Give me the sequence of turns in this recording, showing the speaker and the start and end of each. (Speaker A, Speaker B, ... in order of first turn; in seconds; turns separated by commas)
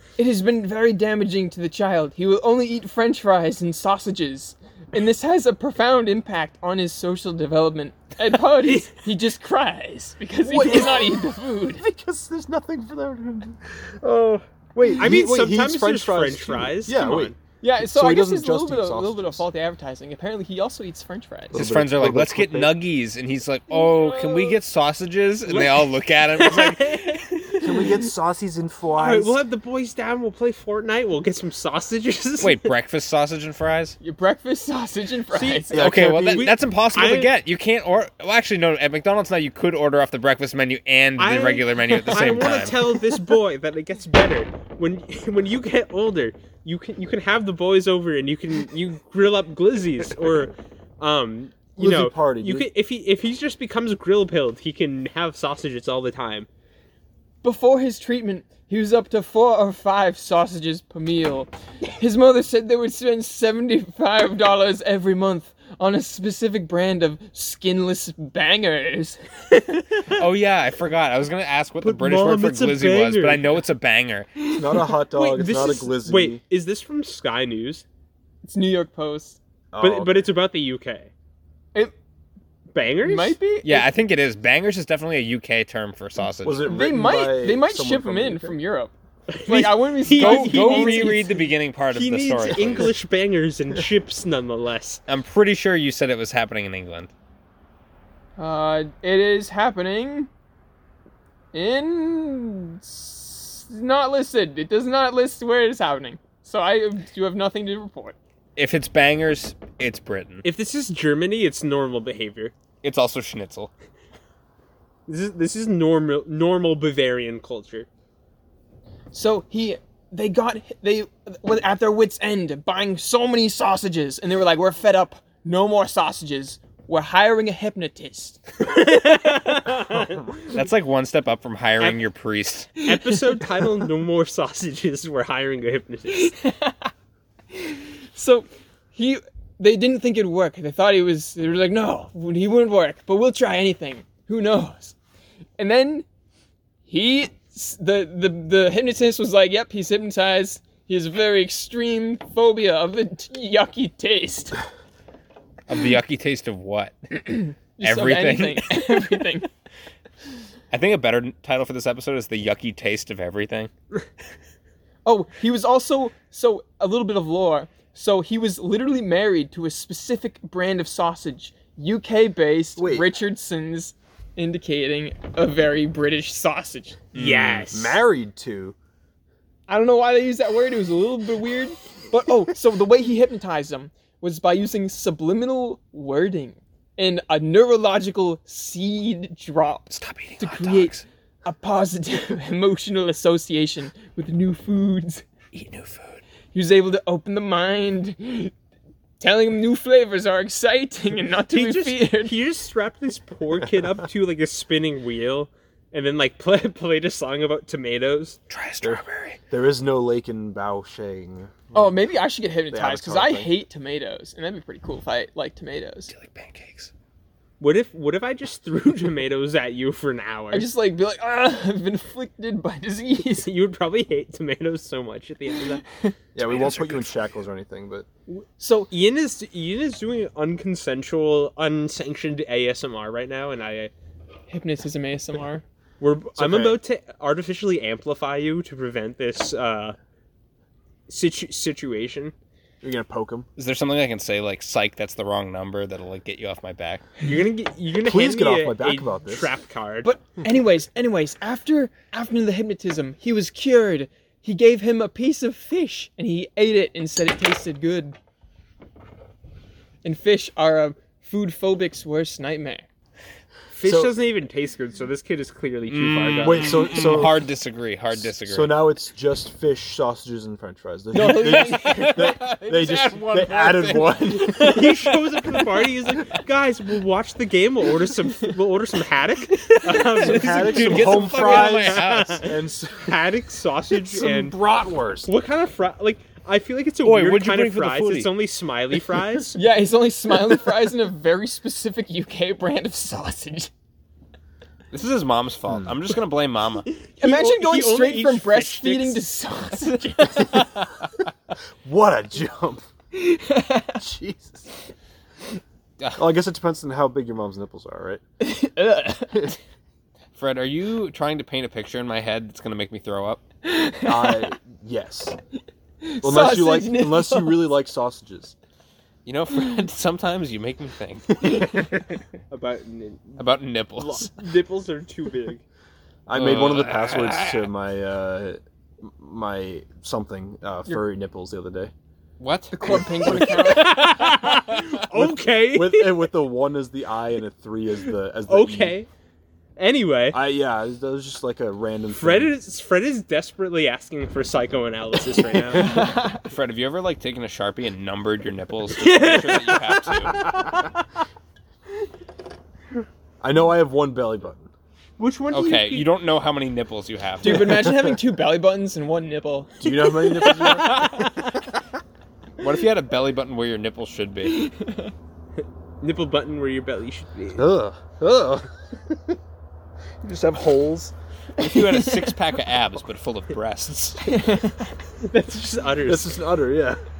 Speaker A: 0.2-11.8, Speaker B: 8.6-9.0, Speaker C: 10.4-19.4, Speaker B: 15.0-17.4, Speaker A: 17.6-21.6, Speaker C: 21.5-22.7, Speaker D: 21.5-27.2, Speaker A: 23.7-24.6, Speaker B: 25.5-27.8, Speaker C: 27.6-29.4, Speaker B: 29.0-32.7, Speaker D: 32.4-34.0, Speaker A: 34.0-35.8, Speaker B: 35.3-37.3, Speaker C: 35.7-36.5, Speaker D: 35.7-43.0, Speaker B: 41.2-56.5, Speaker C: 51.8-52.7, Speaker A: 57.4-69.7, Speaker D: 70.1-74.3, Speaker B: 71.8-73.6, Speaker C: 74.5-76.4, Speaker B: 75.1-77.8, Speaker A: 78.4-79.4, Speaker C: 79.7-80.3, Speaker B: 79.8-81.1, Speaker B: 82.7-83.4, Speaker A: 83.0-83.9, Speaker D: 83.6-86.8, Speaker C: 86.4-88.6, Speaker A: 86.6-88.9, Speaker B: 89.3-95.0, Speaker A: 89.5-91.4, Speaker D: 90.1-93.0, Speaker C: 92.6-92.9, Speaker D: 95.1-97.1, Speaker A: 98.4-100.3, Speaker A: 101.5-108.2, Speaker D: 108.6-110.5, Speaker B: 110.4-112.5, Speaker D: 112.8-113.7, Speaker B: 115.1-117.9, Speaker A: 119.1-128.4, Speaker B: 128.6-130.3, Speaker D: 130.5-132.7, Speaker A: 132.8-133.2, Speaker B: 132.8-136.3, Speaker A: 136.1-136.9, Speaker A: 137.5-145.0, Speaker A: 145.6-146.1, Speaker A: 146.9-154.6, Speaker D: 155.7-159.3, Speaker A: 157.3-159.5, Speaker D: 160.7-163.7, Speaker A: 165.1-177.0, Speaker C: 172.8-173.1, Speaker D: 177.1-177.7, Speaker B: 177.1-178.0, Speaker C: 177.7-178.8, Speaker A: 179.7-195.2, Speaker D: 189.9-191.0, Speaker D: 195.5-196.2, Speaker A: 196.5-198.5, Speaker A: 199.2-202.3, Speaker B: 201.5-208.4, Speaker D: 208.5-209.4, Speaker C: 208.8-212.0, Speaker A: 211.7-216.1, Speaker C: 212.7-213.5, Speaker D: 216.1-216.9, Speaker B: 217.6-220.7, Speaker A: 220.5-223.5, Speaker B: 223.4-225.8, Speaker A: 225.9-226.1, Speaker C: 226.3-228.1, Speaker D: 226.6-227.0, Speaker A: 228.6-228.9, Speaker B: 228.9-233.9, Speaker A: 234.5-235.6, Speaker B: 236.0-240.0, Speaker C: 236.4-236.8, Speaker B: 241.1-242.3, Speaker C: 242.8-243.5, Speaker D: 243.6-247.0, Speaker B: 247.2-250.1, Speaker C: 248.0-249.5, Speaker A: 250.0-258.2, Speaker A: 260.0-262.9, Speaker B: 263.7-267.2, Speaker C: 263.8-264.1, Speaker D: 265.9-268.8, Speaker C: 266.4-267.5, Speaker C: 268.1-274.9, Speaker A: 271.1-272.2, Speaker D: 271.1-275.6, Speaker B: 274.5-284.6, Speaker C: 280.1-283.2, Speaker D: 280.2-282.5, Speaker C: 283.9-285.3, Speaker B: 285.3-289.6, Speaker D: 287.0-288.3, Speaker A: 289.6-293.7, Speaker D: 294.9-296.9, Speaker C: 295.7-296.0, Speaker A: 297.2-300.6, Speaker B: 297.2-299.2, Speaker C: 301.8-302.9, Speaker A: 303.1-304.0, Speaker C: 303.9-304.7, Speaker D: 306.0-306.3, Speaker C: 306.1-308.2, Speaker A: 308.4-309.6, Speaker D: 310.4-313.4, Speaker A: 313.6-314.5, Speaker C: 314.1-315.4, Speaker A: 316.0-317.7, Speaker C: 316.2-318.6, Speaker D: 319.3-321.9, Speaker B: 322.5-323.4, Speaker D: 323.4-324.3, Speaker B: 324.0-325.6, Speaker C: 326.3-331.9, Speaker D: 326.3-327.7, Speaker D: 332.4-333.3, Speaker A: 332.7-334.0, Speaker C: 332.9-333.7, Speaker B: 333.5-336.3, Speaker C: 335.1-339.0, Speaker B: 338.5-339.1, Speaker B: 339.8-340.4, Speaker C: 340.3-342.5, Speaker B: 342.1-345.9, Speaker A: 345.8-346.4, Speaker D: 345.9-350.4, Speaker B: 349.0-350.4, Speaker C: 350.4-350.9, Speaker C: 353.4-354.7, Speaker B: 355.2-356.1, Speaker D: 355.5-357.9, Speaker A: 357.4-360.5, Speaker C: 357.5-358.1, Speaker C: 359.8-361.2, Speaker D: 362.6-364.7, Speaker A: 364.5-365.1, Speaker B: 366.0-367.7, Speaker C: 367.5-369.4, Speaker C: 370.2-371.1, Speaker D: 371.6-374.4, Speaker A: 371.6-372.2, Speaker A: 374.2-374.9, Speaker B: 375.2-376.4, Speaker C: 376.0-377.0